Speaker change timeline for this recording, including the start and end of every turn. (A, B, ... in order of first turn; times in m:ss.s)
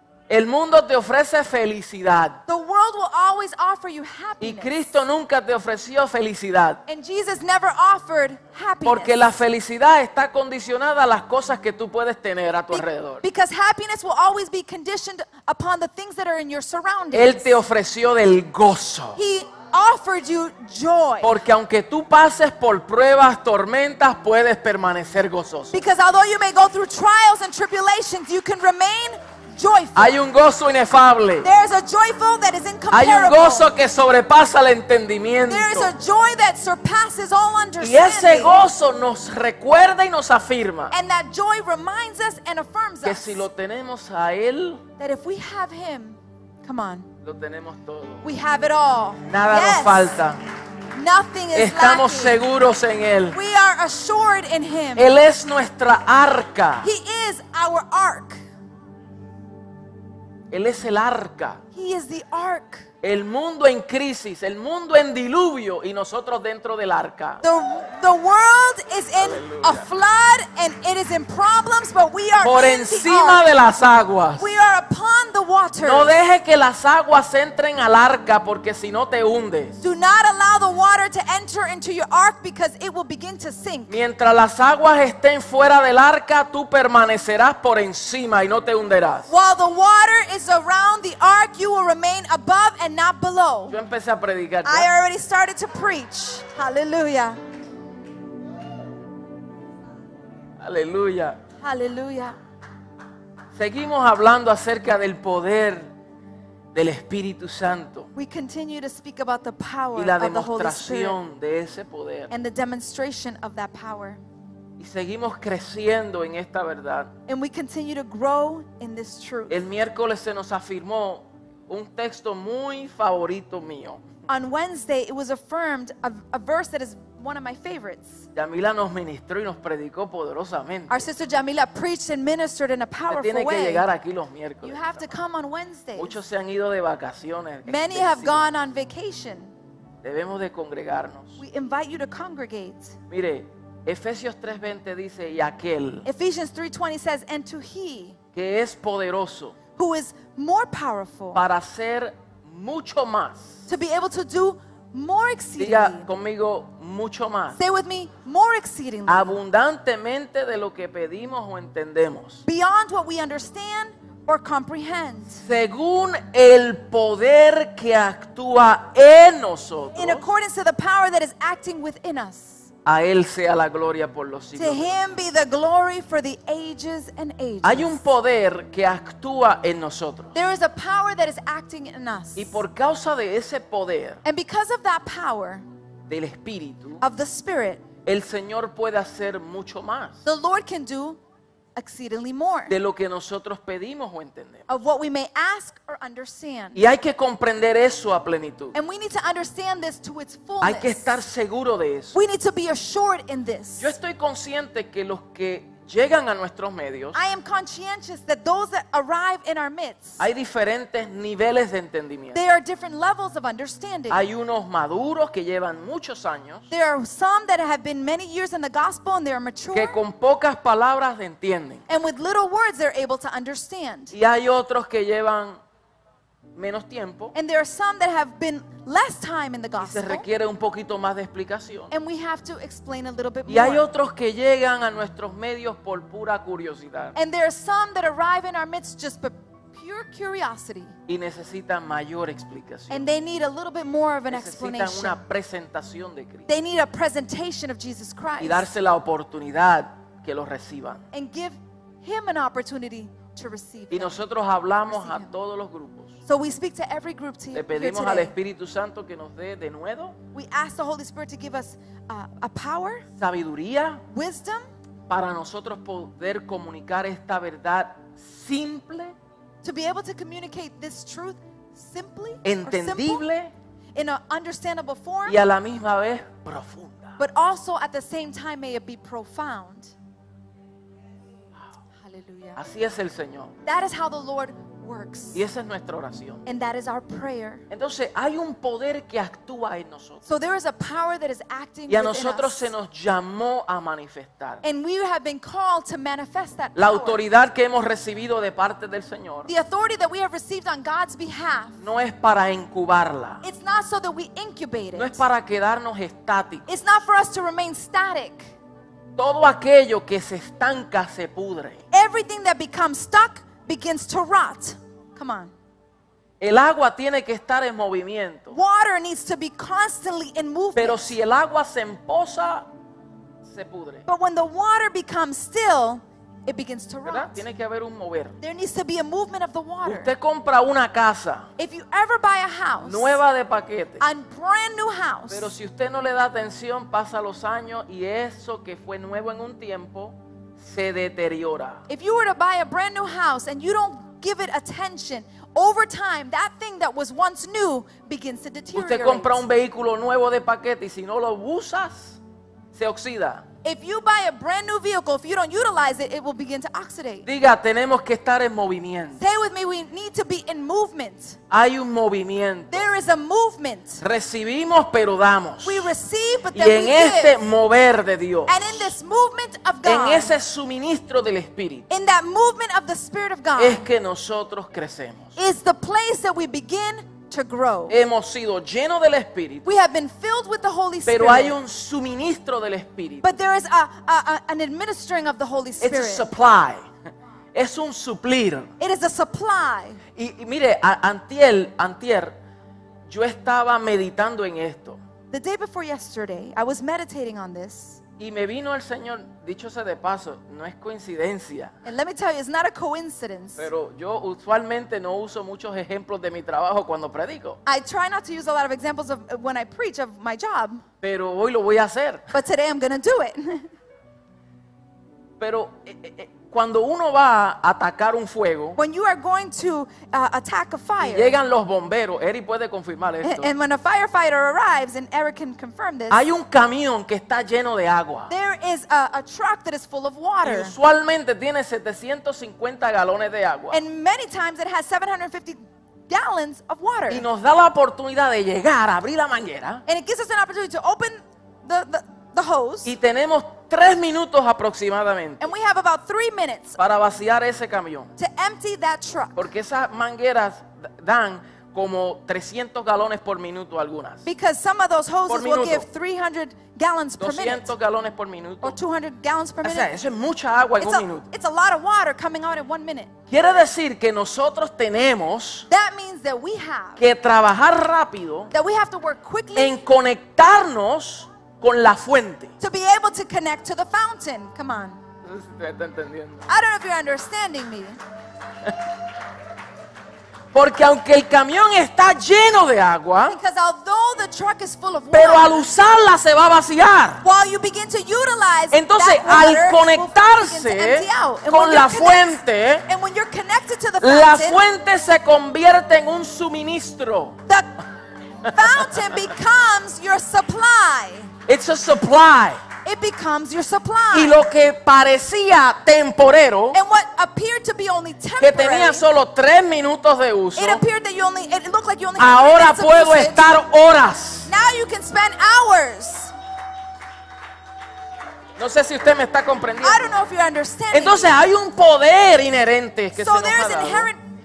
0:00.3-0:02.4 A
0:02.5-0:04.9 B
0:04.4-0:06.8 A
0:06.9-0:09.3 B
0:08.8-0:13.2 A
0:12.7-0:17.6 B
0:17.1-0:19.2 A
0:19.2-0:21.3 B
0:21.2-0:25.8 A
0:25.7-0:30.2 B
0:29.9-0:31.5 A
0:31.4-0:33.7 B
0:32.9-0:35.9 A
0:35.4-0:38.6 B
0:37.8-0:40.9 A
0:40.9-0:43.4 B
0:43.0-0:44.8 A
0:45.0-0:47.1 B
0:47.2-0:48.2 A
0:48.2-0:50.2 B
0:49.2-0:50.4 A
0:50.9-0:52.4 B
0:51.5-0:53.4 A
0:53.3-0:55.1 B
0:55.0-0:56.9 A
0:56.8-0:58.4 B
1:00.5-1:01.6 A
1:01.7-1:02.9 B
1:03.0-1:07.4 A
1:07.4-1:13.4 B
1:09.2-1:09.8 A
1:12.4-1:14.5 A
1:14.4-1:16.1 B
1:15.8-1:19.8 A
1:19.8-1:24.0 B
1:23.9-1:29.3 A
1:29.3-1:33.8 B
1:33.7-1:34.9 A
1:34.6-1:37.4 B
1:40.6-1:41.4 A
1:41.6-1:42.4 B
1:43.5-1:45.9 A
1:46.7-1:48.1 A
1:48.1-1:51.2 B
1:49.9-1:52.3 A
1:52.3-1:54.2 B
1:54.8-1:57.1 A
1:57.3-1:59.6 B
1:59.5-2:04.0 A
2:04.3-2:08.2 B
2:08.3-2:11.0 A
2:10.9-2:13.9 B
2:13.1-2:15.1 A
2:14.6-2:16.2 B
2:16.0-2:18.5 A
2:17.6-2:19.5 B
2:20.0-2:21.4 A
2:21.4-2:23.0 B
2:23.1-2:26.1 A
2:26.0-2:28.2 B
2:28.3-2:29.6 A
2:29.7-2:31.4 B
2:31.3-2:33.6 A
2:33.7-2:36.1 B
2:35.6-2:37.6 A
2:37.6-2:39.4 B
2:39.1-2:42.4 A
2:42.4-2:45.4 B
2:45.4-2:50.2 A
2:49.9-2:52.7 B
2:52.8-2:54.9 A
2:54.6-2:58.0 B
2:57.6-3:00.3 A
3:00.3-3:02.6 B
3:02.4-3:04.2 A
3:04.2-3:05.6 B
3:06.1-3:07.0 A
3:07.0-3:07.8 B
3:08.0-3:10.2 A
3:10.2-3:11.2 B
3:11.8-3:12.7 B
3:12.7-3:14.7 A
3:14.7-3:16.8 B
3:16.7-3:18.7 A
3:18.7-3:21.1 B
3:20.6-3:22.1 A
3:22.1-3:23.9 B
3:23.8-3:27.2 A
3:27.1-3:30.2 B
3:30.2-3:32.4 A
3:32.3-3:34.2 B
3:34.1-3:36.7 A
3:36.7-3:40.0 B
3:39.7-3:41.8 A
3:41.9-3:44.1 B
3:44.1-3:45.6 A
3:46.6-3:47.3 A
3:47.3-3:50.3 B
3:49.8-3:51.9 A
3:51.9-3:53.8 B
3:53.5-3:57.2 A
3:57.1-4:01.0 B
4:01.1-4:03.0 A
4:02.9-4:05.2 B
4:04.3-4:06.5 A
4:06.5-4:08.7 B
4:08.4-4:11.0 A
4:11.1-4:14.2 B
4:13.9-4:16.2 A
4:14.9-4:15.3 B
4:16.2-4:18.3 B
4:17.5-4:20.2 A
4:20.3-4:23.0 B
4:23.2-4:24.0 A
4:24.1-4:24.6 B
4:25.1-4:29.1 A
4:29.6-4:33.2 B
4:32.4-4:33.5 A
4:33.9-4:35.4 B
4:35.2-4:37.2 A
4:37.2-4:39.9 B
4:42.0-4:42.6 B
4:42.6-4:43.5 A
4:43.6-4:45.4 B
4:45.3-4:46.4 A
4:46.4-4:47.6 B
4:47.7-4:50.2 A
4:50.2-4:52.7 B
4:51.9-4:54.6 A
4:54.6-4:57.2 B
4:56.7-4:59.5 A
4:59.5-5:01.8 B
5:01.8-5:03.4 A
5:03.4-5:05.2 B
5:05.0-5:06.6 A
5:06.7-5:08.5 B
5:09.2-5:11.8 A
5:11.9-5:15.5 B
5:16.4-5:18.6 A
5:18.5-5:21.1 B
5:20.8-5:22.7 A
5:23.4-5:24.0 A
5:24.1-5:27.4 B
5:27.0-5:28.4 A
5:28.4-5:30.1 B
5:29.8-5:31.5 A
5:31.6-5:33.2 B
5:32.8-5:34.0 A
5:34.0-5:35.5 B
5:35.3-5:41.8 A
5:41.9-5:49.4 B
5:48.7-5:52.2 A
5:52.7-5:53.4 A
5:53.6-5:57.3 B
5:57.2-5:59.2 A
5:59.2-6:01.4 B
6:01.5-6:02.9 A
6:02.7-6:04.0 B
6:04.0-6:05.9 A
6:05.6-6:07.4 B
6:06.5-6:08.9 A
6:08.5-6:10.3 B
6:09.8-6:11.9 A
6:11.9-6:13.8 B
6:13.6-6:15.3 A
6:15.4-6:18.0 B
6:17.9-6:19.7 A
6:19.6-6:21.6 B
6:21.0-6:23.3 A
6:23.2-6:26.3 B
6:25.8-6:26.8 A
6:27.5-6:28.7 A
6:28.8-6:30.0 B
6:30.2-6:32.3 A
6:33.1-6:35.0 A
6:35.3-6:38.0 B
6:38.2-6:41.7 A
6:41.8-6:43.7 B
6:43.6-6:47.6 A
6:47.6-6:50.8 B
6:51.0-6:52.3 A
6:52.3-6:53.7 B
6:55.4-6:58.8 A
6:58.8-7:01.4 B
7:01.0-7:03.5 A
7:03.2-7:06.2 B
7:06.1-7:08.3 A
7:08.3-7:10.7 B
7:10.4-7:13.8 A
7:13.7-7:17.2 B
7:17.1-7:19.8 A
7:19.8-7:22.9 B
7:22.8-7:25.5 A
7:25.4-7:26.8 B
7:26.8-7:28.1 A
7:28.2-7:29.4 B
7:29.4-7:34.2 A
7:34.2-7:37.7 B
7:35.3-7:35.8 A
7:37.2-7:38.8 A
7:38.6-7:39.9 B
7:39.6-7:41.3 A
7:40.8-7:43.1 B
7:43.3-7:45.7 A
7:45.7-7:47.0 B
7:47.0-7:48.5 A
7:48.5-7:49.8 B
7:49.5-7:52.5 A
7:52.6-7:55.0 B
7:55.2-7:56.4 A
7:56.5-7:58.0 B
8:00.5-8:03.4 A
8:03.3-8:05.7 B
8:05.1-8:07.2 A
8:07.2-8:14.6 B
8:08.7-8:12.8 A
8:14.0-8:17.4 A
8:18.4-8:21.3 B
8:18.6-8:19.0 A
8:21.5-8:22.6 A
8:22.8-8:24.4 B
8:24.1-8:26.8 A
8:26.7-8:29.0 B
8:28.4-8:30.8 A
8:30.6-8:33.6 B
8:32.2-8:34.5 A
8:34.4-8:36.3 B
8:38.6-8:40.1 A
8:39.8-8:41.4 B
8:40.9-8:44.1 A
8:43.2-8:44.2 B